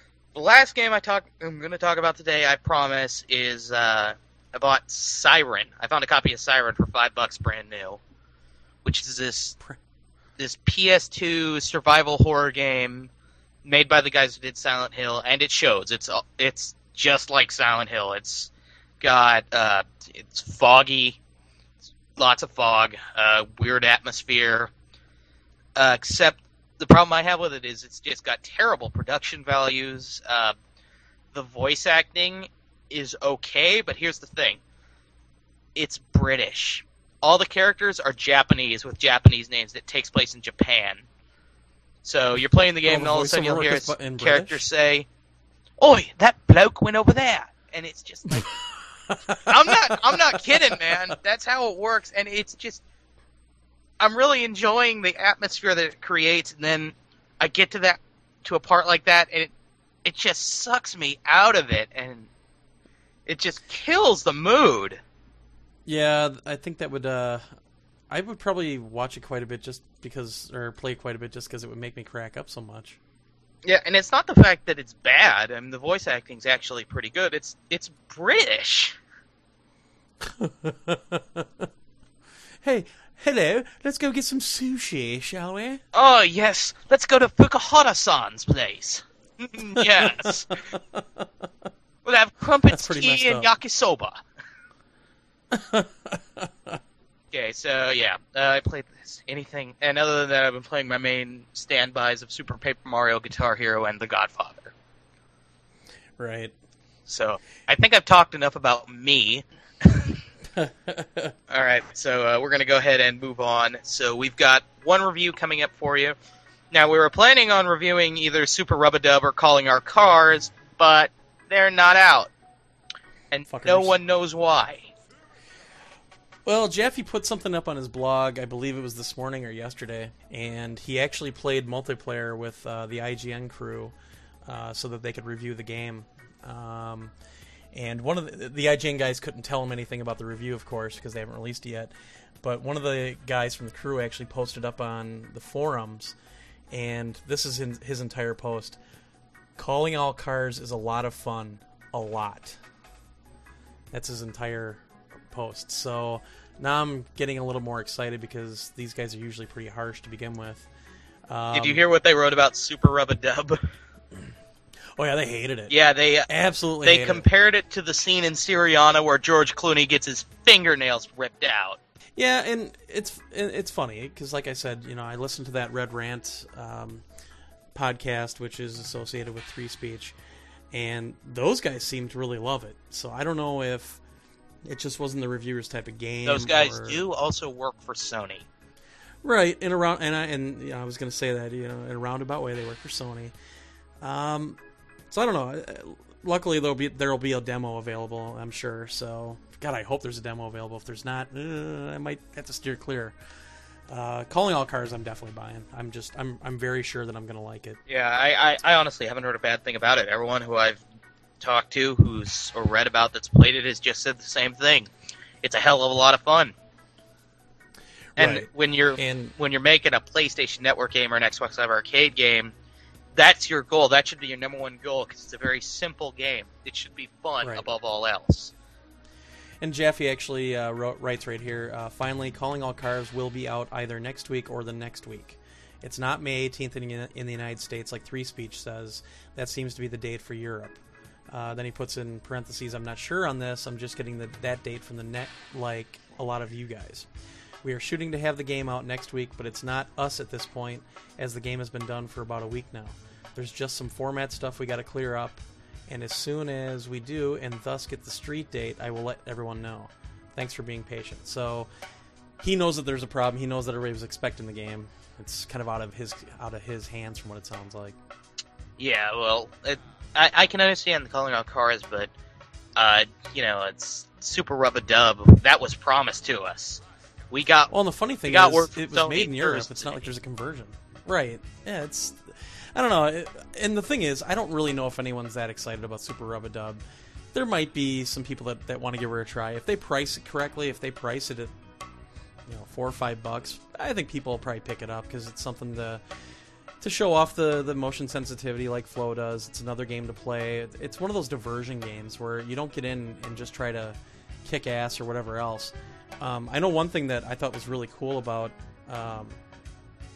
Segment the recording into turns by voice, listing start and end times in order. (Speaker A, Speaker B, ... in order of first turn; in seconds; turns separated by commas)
Speaker A: 0.3-8.0, Speaker A: 8.8-9.6, Speaker A: 10.4-13.1, Speaker A: 13.7-18.5, Speaker A: 19.0-21.2, Speaker A: 22.2-24.7, Speaker A: 25.8-30.6, Speaker A: 31.3-34.6, Speaker A: 35.8-41.0, Speaker A: 42.0-45.1, Speaker B: 42.8-44.6, Speaker A: 45.8-48.5, Speaker B: 49.1-51.1, Speaker A: 49.5-52.8, Speaker A: 54.0-59.5, Speaker A: 60.0-62.3, Speaker A: 63.3-65.0, Speaker B: 65.9-67.4, Speaker B: 68.1-73.0, Speaker A: 73.6-79.0, Speaker B: 80.2-81.7, Speaker B: 82.6-85.8, Speaker A: 85.9-90.6, Speaker B: 89.8-91.5, Speaker A: 92.0-94.2, Speaker B: 92.7-93.5, Speaker B: 95.5-96.8, Speaker A: 97.3-104.7, Speaker B: 106.2-106.5, Speaker A: 107.1-110.2, Speaker B: 110.6-111.3, Speaker A: 111.5-116.2, Speaker A: 116.7-122.3, Speaker A: 123.3-124.9, Speaker B: 123.5-124.0, Speaker B: 126.5-133.9, Speaker B: 134.4-137.1, Speaker B: 137.7-146.2, Speaker B: 146.7-148.8, Speaker B: 149.6-152.6, Speaker B: 153.9-160.7, Speaker B: 161.3-161.8, Speaker A: 161.5-163.7, Speaker B: 165.0-165.8, Speaker A: 165.7-166.3, Speaker B: 166.3-167.3, Speaker A: 166.8-171.8, Speaker B: 172.2-177.0, Speaker B: 177.7-180.2, Speaker B: 180.7-184.0, Speaker B: 184.6-187.0, Speaker A: 186.3-188.5, Speaker B: 189.2-193.3, Speaker B: 194.0-194.6, Speaker B: 195.1-203.2, Speaker B: 203.9-207.8, Speaker A: 207.9-210.8, Speaker A: 211.4-214.9, Speaker A: 215.4-216.5, Speaker B: 218.2-219.3, Speaker A: 218.2-222.5, Speaker A: 223.2-228.5, Speaker B: 229.6-247.1, Speaker B: 247.6-261.7, Speaker B: 262.4-268.0, Speaker A: 268.8-272.1, Speaker A: 272.8-277.7, Speaker B: 277.7-286.8, Speaker A: 278.3-280.1, Speaker B: 287.3-291.5, Speaker B: 292.5-296.0, Speaker B: 296.8-309.4